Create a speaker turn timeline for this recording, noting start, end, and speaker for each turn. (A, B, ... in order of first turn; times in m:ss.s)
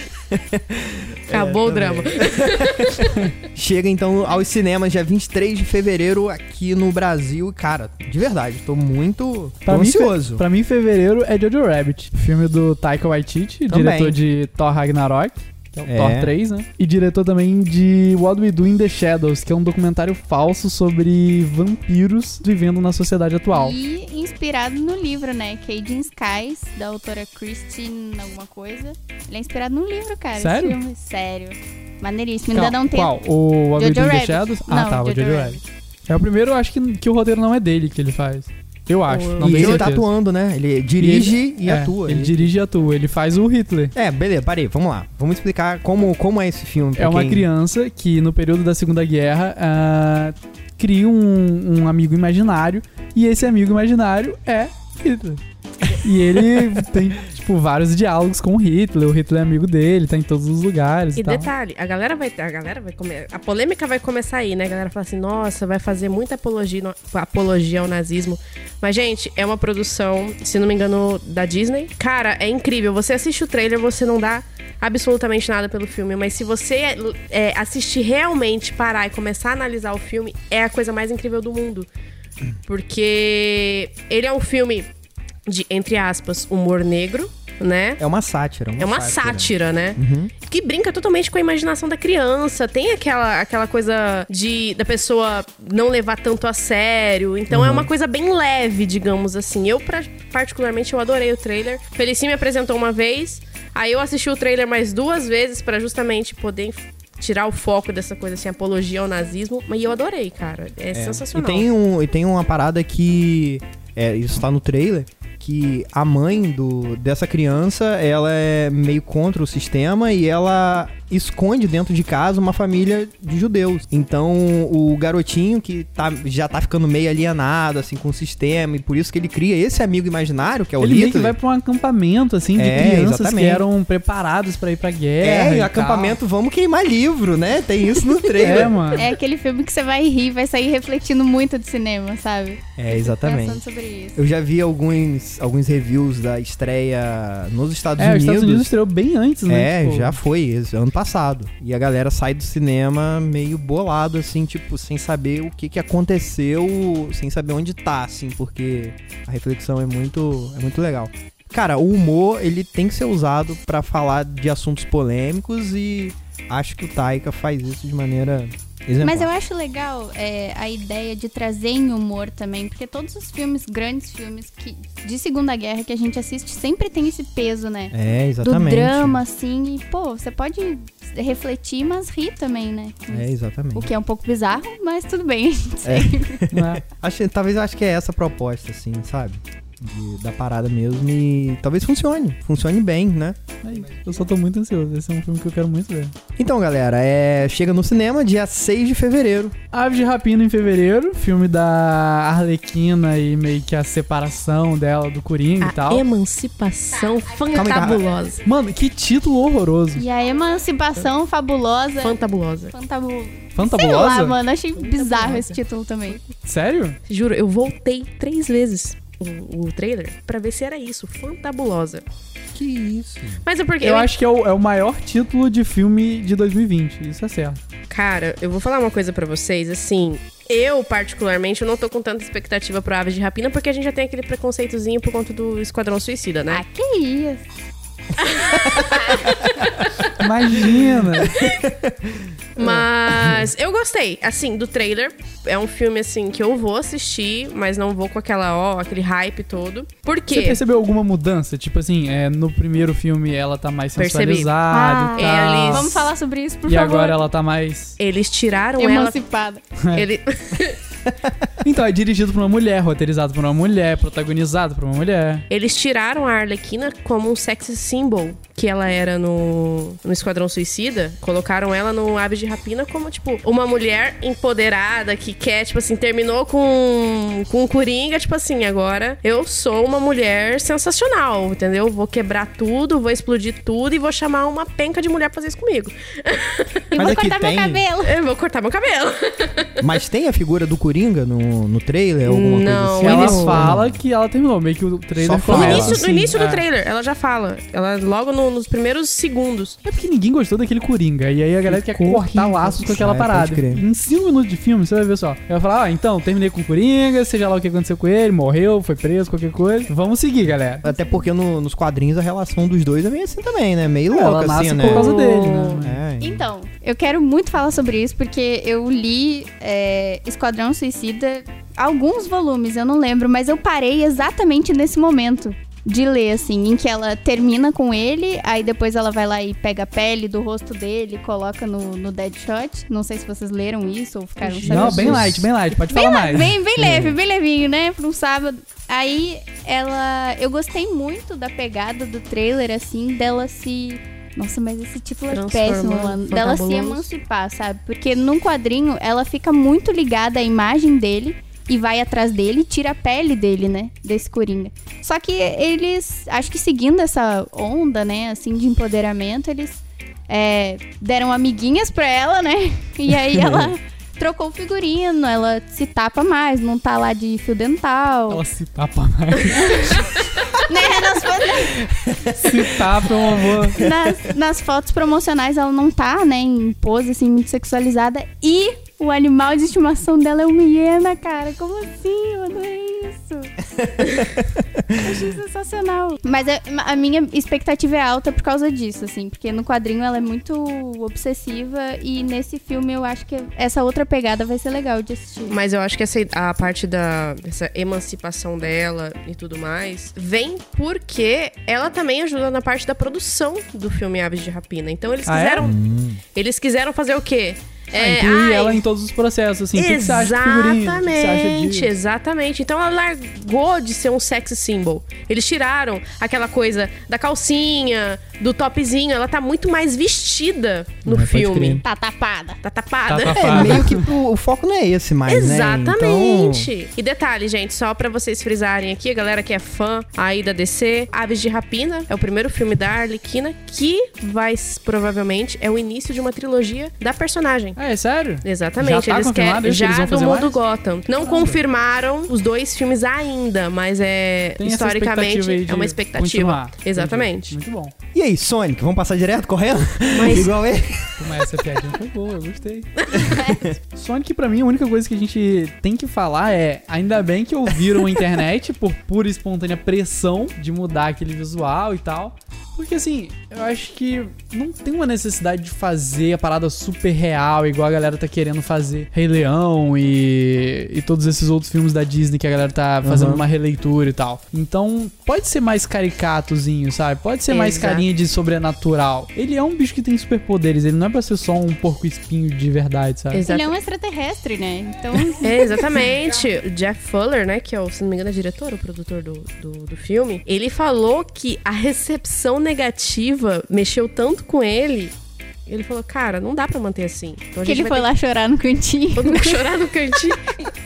0:00.3-0:10.4 A
0:01.3-0:03.1 B
0:09.7-0:23.8 C
0:13.7-0:14.2 A
0:15.9-0:16.3 A
0:23.5-0:33.1 D
0:30.4-0:30.8 C
0:32.6-0:40.1 C
0:33.8-0:35.6 D
0:39.1-0:39.9 B
0:39.4-0:42.5 A
0:41.0-0:43.9 C
0:44.0-0:47.5 A
0:47.0-1:01.5 C
1:01.2-1:21.9 B
1:22.6-1:24.9 B
1:25.5-1:28.0 B
1:28.0-1:30.3 A
1:28.8-1:51.7 B
1:37.5-1:37.9 A
1:50.9-2:11.4 A
2:10.8-2:16.2 C
2:12.6-2:13.6 A
2:15.2-2:18.9 A
2:18.4-2:19.1 C
2:18.4-2:24.2 D
2:22.8-2:23.6 A
2:24.2-2:28.7 A
2:28.0-2:30.2 C
2:29.5-2:49.3 A
2:49.0-3:06.4 D
2:57.9-2:59.2 A
3:03.1-3:03.9 A
3:05.8-3:13.4 A
3:06.5-3:06.8 C
3:13.6-3:16.2 C
3:16.4-3:19.6 A
3:19.7-3:26.1 C
3:25.6-3:28.4 B
3:27.5-3:28.0 A
3:28.4-3:30.0 C
3:30.0-3:32.2 D
3:32.0-3:32.7 B
3:32.7-3:36.2 D
3:33.6-3:34.4 C
3:34.8-3:36.3 B
3:36.4-3:37.0 C
3:37.1-3:42.0 B
3:42.5-3:43.4 A
3:43.4-3:44.1 B
3:43.8-3:47.6 C
3:47.9-3:56.6 B
3:56.5-3:57.4 D
3:58.2-4:00.0 B
3:58.6-3:59.4 A
4:00.2-4:01.4 C
4:01.2-4:03.5 A
4:01.4-4:01.6 B
4:02.6-4:10.6 B
4:10.3-4:16.1 C
4:14.0-4:14.5 B
4:14.7-4:17.2 D
4:15.2-4:16.1 B
4:16.7-4:18.0 C
4:18.0-4:19.2 B
4:18.8-4:19.6 D
4:19.8-4:20.1 C
4:19.9-4:20.8 B
4:21.1-4:21.4 A
4:21.6-4:25.4 C
4:25.5-4:46.9 B
4:46.9-4:48.2 D
4:47.0-4:47.8 A
4:48.0-4:49.9 B
4:49.8-4:54.0 A
4:52.3-4:53.7 B
4:53.0-4:56.6 C
4:55.2-4:56.0 A
4:55.5-4:59.8 B
4:59.8-5:10.8 C
5:01.7-5:03.8 A
5:10.8-5:15.2 A
5:10.8-5:11.2 D
5:14.1-5:16.0 C
5:14.8-5:15.8 B
5:15.8-5:16.5 A
5:16.2-6:08.4 D
5:34.6-5:35.5 A
5:34.6-5:36.6 C
5:36.8-5:37.2 A
5:45.3-5:47.1 B
6:03.2-6:03.7 A
6:08.3-6:10.3 C
6:09.6-6:11.8 D
6:11.8-6:14.3 A
6:12.3-6:13.8 C
6:13.8-6:23.6 D
6:23.8-6:24.9 A
6:25.0-6:35.6 D
6:35.5-6:45.8 B
6:45.3-6:45.7 C
6:45.6-6:46.2 A
6:46.3-6:48.8 B
6:47.9-6:51.9 C
6:49.8-7:01.8 B
7:01.1-7:01.8 A
7:01.8-7:02.6 D
7:02.6-7:03.9 B
7:03.1-7:04.1 C
7:03.4-7:06.7 A
7:05.3-7:17.8 B
7:17.8-7:20.6 C
7:18.4-7:27.6 B
7:21.1-7:21.6 C
7:24.6-7:27.9 C
7:28.1-7:31.3 A
7:30.1-7:30.5 B
7:31.2-8:03.4 C
7:33.1-7:33.4 B
7:33.4-7:33.8 A
7:53.0-7:53.4 A
7:57.5-7:58.0 B
8:03.3-8:03.7 B
8:03.5-8:06.0 D
8:05.4-8:15.2 B
8:15.7-8:18.1 B
8:17.6-8:19.7 D
8:19.2-8:20.6 B